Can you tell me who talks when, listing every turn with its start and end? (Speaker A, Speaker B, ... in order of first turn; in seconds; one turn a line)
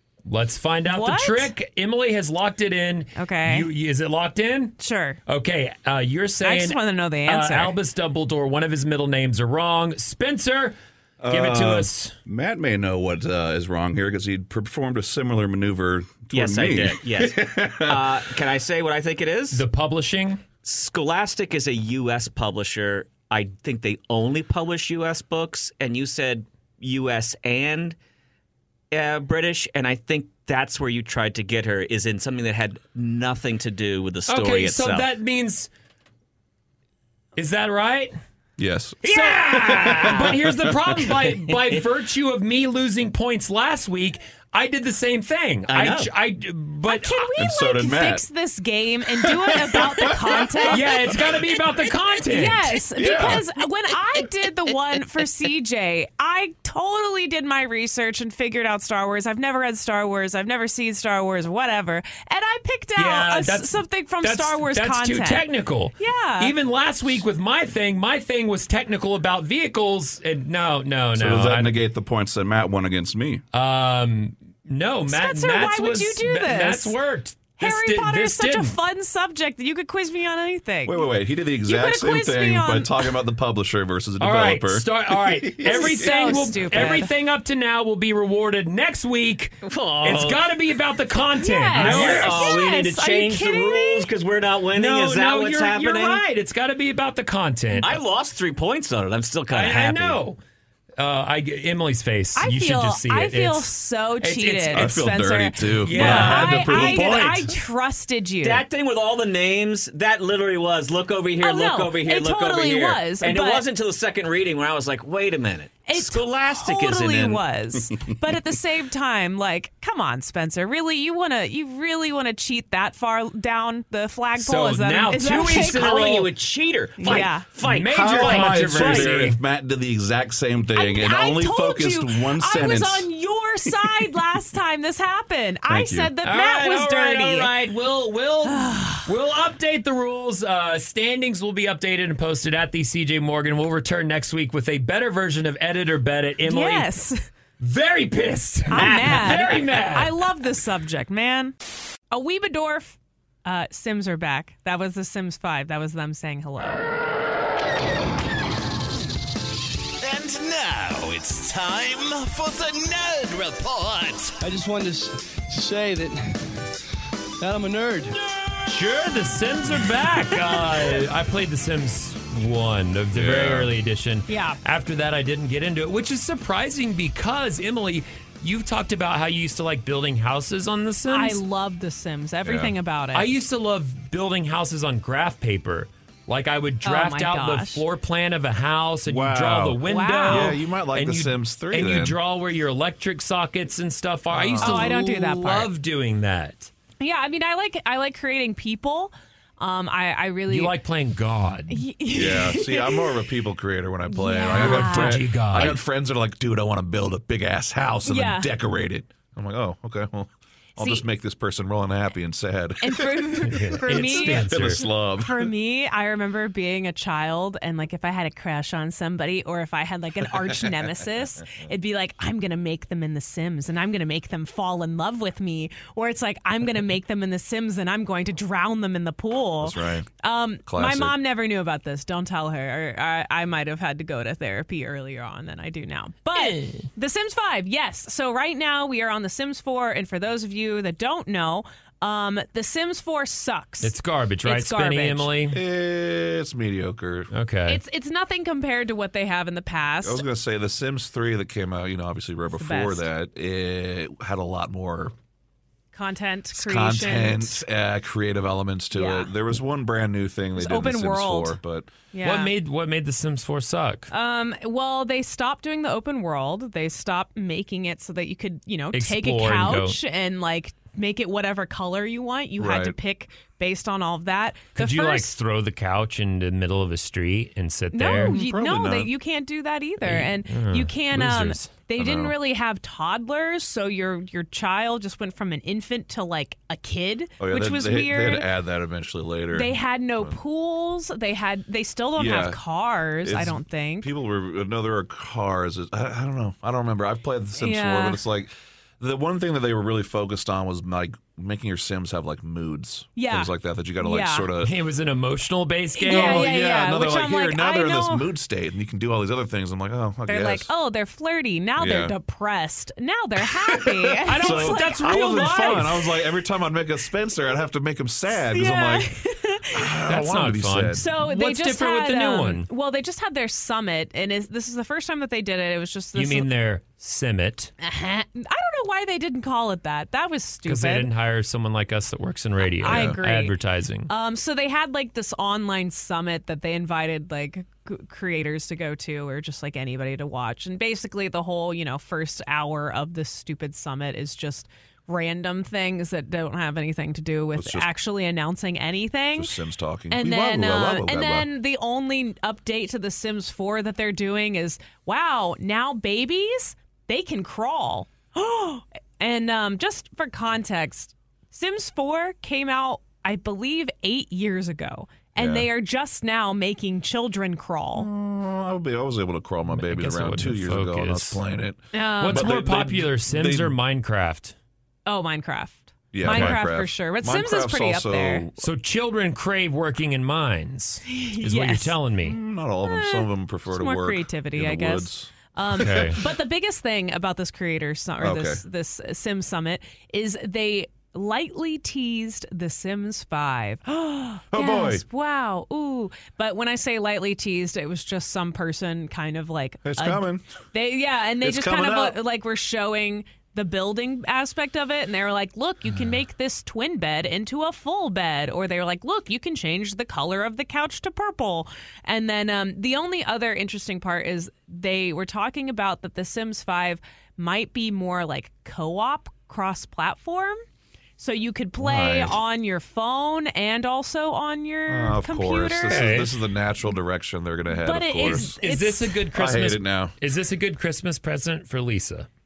Speaker A: 0.3-4.8
Speaker B: 0.9-1.5
Speaker B: 3.2-3.7
Speaker B: 4.8-5.2
Speaker A: 5.3-10.8
Speaker B: 6.4-7.8
Speaker C: 11.2-18.2
Speaker A: 11.3-12.1
Speaker D: 16.3-19.6
Speaker A: 19.5-20.4
Speaker D: 20.6-28.0
Speaker D: 28.9-35.1
Speaker A: 34.3-35.7
Speaker A: 37.4-38.1
Speaker C: 38.6-41.1
Speaker A: 39.0-47.3
Speaker D: 39.0-40.3
Speaker D: 45.7-46.1
Speaker B: 46.9-66.5
Speaker C: 47.4-48.3
Speaker C: 49.4-51.2
Speaker A: 50.7-53.4
Speaker C: 53.0-53.4
Speaker A: 63.0-71.7
Speaker C: 71.2-73.4
Speaker A: 73.5-78.8
Speaker B: 75.1-77.0
Speaker B: 77.5-81.1
Speaker C: 80.8-86.9
Speaker B: 81.7-83.1
Speaker A: 84.2-92.6
Speaker B: 85.6-87.1
Speaker D: 89.7-90.5
Speaker B: 91.4-94.1
Speaker D: 91.8-96.2
Speaker A: 94.8-98.0
Speaker D: 97.8-100.2
Speaker A: 99.5-100.4
Speaker A: 101.0-105.0
Speaker B: 102.3-108.6
Speaker C: 104.7-107.5
Speaker A: 105.8-107.5
Speaker D: 108.4-117.4
Speaker B: 111.4-113.7
Speaker B: 115.9-126.2
Speaker A: 124.4-126.3
Speaker D: 125.5-129.1
Speaker B: 127.0-127.5
Speaker A: 127.1-129.4
Speaker C: 127.9-133.1
Speaker B: 130.8-137.6
Speaker C: 135.7-136.1
Speaker A: 136.2-146.9
Speaker B: 138.4-139.1
Speaker B: 146.4-147.2
Speaker A: 147.6-150.1
Speaker B: 148.7-151.6
Speaker B: 152.1-156.8
Speaker E: 160.3-162.4
Speaker E: 163.2-163.6
Speaker F: 164.4-166.6
Speaker F: 167.4-168.2
Speaker A: 168.7-181.4
Speaker C: 173.1-173.7
Speaker B: 174.3-174.6
Speaker B: 181.1-183.3
Speaker C: 182.4-182.7
Speaker A: 183.1-196.7
Speaker B: 186.8-187.8
Speaker C: 189.1-192.2
Speaker B: 189.8-190.5
Speaker C: 194.3-194.9
Speaker B: 194.6-195.7
Speaker B: 197.0-200.7
Speaker A: 200.5-201.8
Speaker B: 201.7-203.2
Speaker C: 202.1-215.5
Speaker B: 204.1-205.3
Speaker A: 204.4-205.8
Speaker B: 208.1-208.5
Speaker B: 210.8-211.0
Speaker B: 212.8-245.3
Speaker A: 213.5-214.9
Speaker C: 220.3-220.9
Speaker C: 229.6-230.1
Speaker C: 230.7-231.2
Speaker A: 236.3-236.9
Speaker A: 243.8-245.6
Speaker C: 245.5-247.3
Speaker A: 247.3-247.8
Speaker B: 247.7-250.2
Speaker C: 250.0-255.2
Speaker B: 252.6-253.1
Speaker B: 255.9-257.6
Speaker C: 256.5-261.9
Speaker B: 258.9-259.3
Speaker B: 260.6-261.6
Speaker B: 262.1-262.5
Speaker A: 262.2-264.1
Speaker B: 264.1-275.4
Speaker A: 268.9-270.0
Speaker C: 272.6-273.0
Speaker A: 274.7-278.4
Speaker B: 277.9-288.5
Speaker C: 278.1-279.1
Speaker A: 280.0-281.8
Speaker C: 282.0-282.4
Speaker C: 287.4-290.4
Speaker B: 289.5-294.1
Speaker C: 292.2-292.6
Speaker C: 293.2-304.7
Speaker B: 297.6-298.2
Speaker B: 303.2-304.5
Speaker A: 304.6-306.6
Speaker B: 305.9-308.3
Speaker C: 306.1-310.7
Speaker B: 310.3-315.8
Speaker C: 311.8-312.1
Speaker A: 314.2-315.9
Speaker C: 314.4-319.1
Speaker B: 318.5-319.9
Speaker C: 319.7-321.0
Speaker A: 320.1-322.7
Speaker B: 320.9-326.5
Speaker A: 326.1-327.7
Speaker B: 327.8-331.1
Speaker A: 330.7-334.1
Speaker B: 332.8-333.6
Speaker C: 332.8-333.2
Speaker B: 334.1-349.5
Speaker C: 347.6-347.9
Speaker C: 349.4-351.5
Speaker B: 350.1-368.1
Speaker C: 365.4-365.7
Speaker C: 367.9-373.7
Speaker A: 369.7-371.4
Speaker B: 371.9-372.5
Speaker A: 372.2-374.6
Speaker B: 375.1-378.4
Speaker C: 376.1-378.6
Speaker A: 376.2-376.6
Speaker A: 378.6-382.4
Speaker B: 381.1-382.0
Speaker C: 382.2-386.2
Speaker B: 382.8-420.6
Speaker A: 385.7-386.2
Speaker C: 388.2-388.6
Speaker C: 394.5-395.0
Speaker C: 399.8-400.4
Speaker C: 401.4-402.2
Speaker B: 421.2-426.2
Speaker C: 421.8-422.4
Speaker C: 424.9-428.6
Speaker A: 425.9-426.3
Speaker B: 427.7-429.2
Speaker A: 428.3-432.3
Speaker C: 429.3-430.1